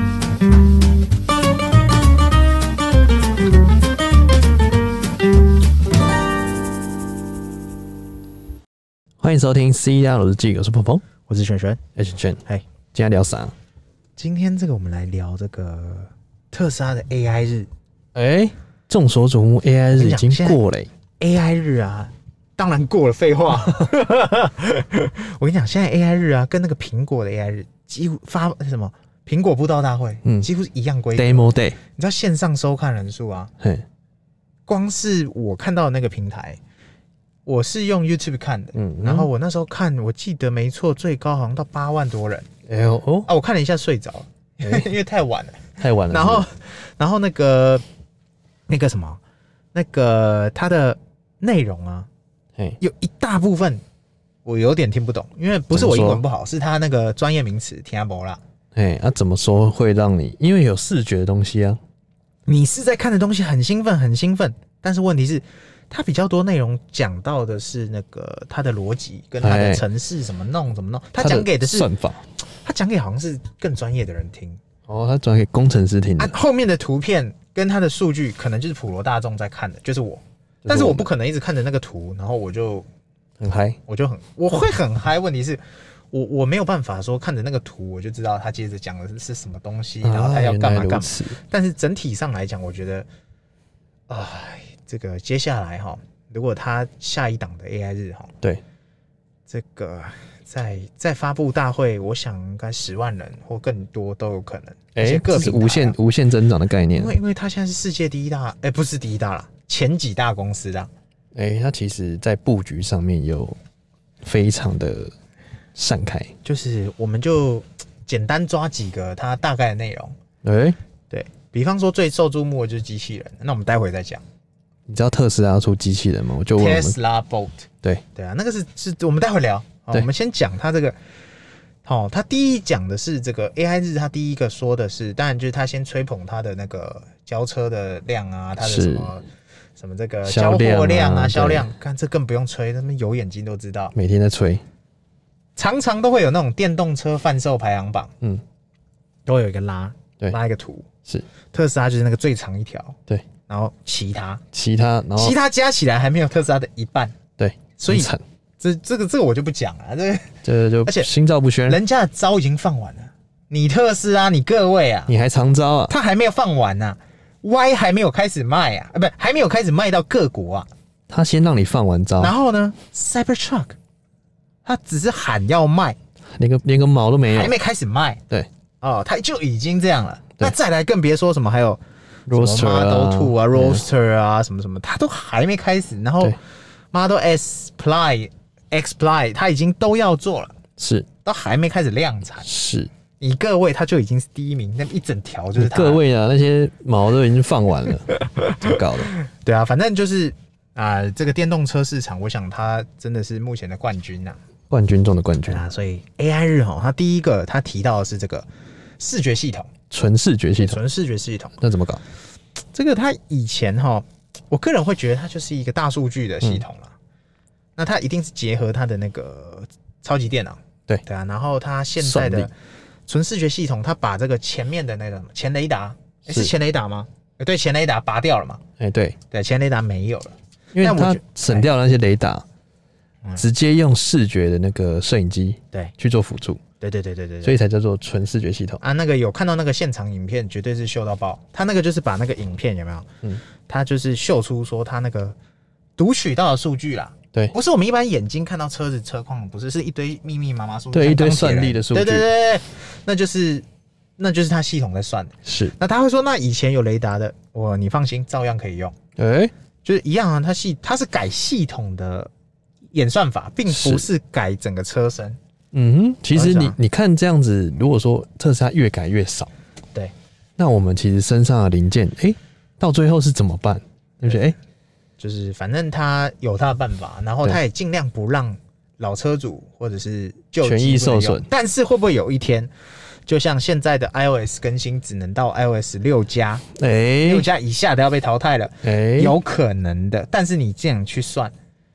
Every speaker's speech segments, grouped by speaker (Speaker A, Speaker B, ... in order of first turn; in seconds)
Speaker A: 9.2-11.0, 11.9-12.4, 12.9-13.5, 18.1-20.9, 31.2-31.8, 38.8-39.3, 42.7-43.3, 45.8-46.4, 55.7-56.2, 58.7-61.8, 69.4-69.8, 71.2-72.2, 74.9-76.3, 80.6-81.1, 83.4-83.8, 90.0-91.4, 104.9-107.2, 111.3-113.6, 114.2-115.1, 115.7-116.3, 120.4-120.8, 124.9-127.0, 138.6-139.1, 140.2-141.7, 143.9-144.6, 154.5-155.4, 157.4-158.2, 160.4-161.8, 165.1-165.9, 171.1-172.3, 176.3-177.5, 182.3-183.8, 190.8-191.1, 192.4-192.9, 195.6-199.1, 204.7-205.6, 209.9-210.8, 211.6-212.0, 222.0-222.5, 226.3-226.5, 228.8-229.2, 230.7-232.4, 233.4-236.6, 237.4-238.8, 250.9-252.3, 255.4-255.7, 259.1-259.5, 263.7-264.1, 265.7-269.5, 270.6-274.6, 280.6-281.5, 286.8-287.5, 288.8-289.4
Speaker B: 11.3-11.8, 14.2-17.7, 19.9-20.6, 21.2-33.5, 34.7-36.6, 37.5-42.5, 43.2-47.8, 48.7-49.2, 49.7-52.1, 52.8-53.8, 54.4-58.4, 62.5-71.9, 72.6-74.6, 76.2-82.8, 83.9-85.6, 86.1-93.1, 94.1-98.3, 99.5-106.0, 106.9-110.9, 116.5-120.1, 121.1-124.2, 126.5-130.9, 131.8-139.2, 139.8-143.9, 145.6-148.1, 149.3-150.9, 151.5-154.4, 155.2-157.2, 157.8-161.1, 161.7-165.1, 165.9-170.7, 172.2-173.8, 174.7-176.0, 177.2-178.2, 178.8-181.8, 182.3-186.4, 186.9-190.6, 191.2-192.5, 193.2-196.0, 198.1-204.4, 205.5-208.5, 209.0-209.7, 210.6-211.6, 212.7-216.9, 217.8-222.5, 223.1-228.6, 229.3-231.7, 236.8-237.6, 238.8-243.1, 243.7-245.3, 246.0-253.6, 254.2-258.9, 259.8-262.3, 262.9-265.4, 266.3-266.8, 275.2-282.7, 283.3-286.6, 287.2-291.5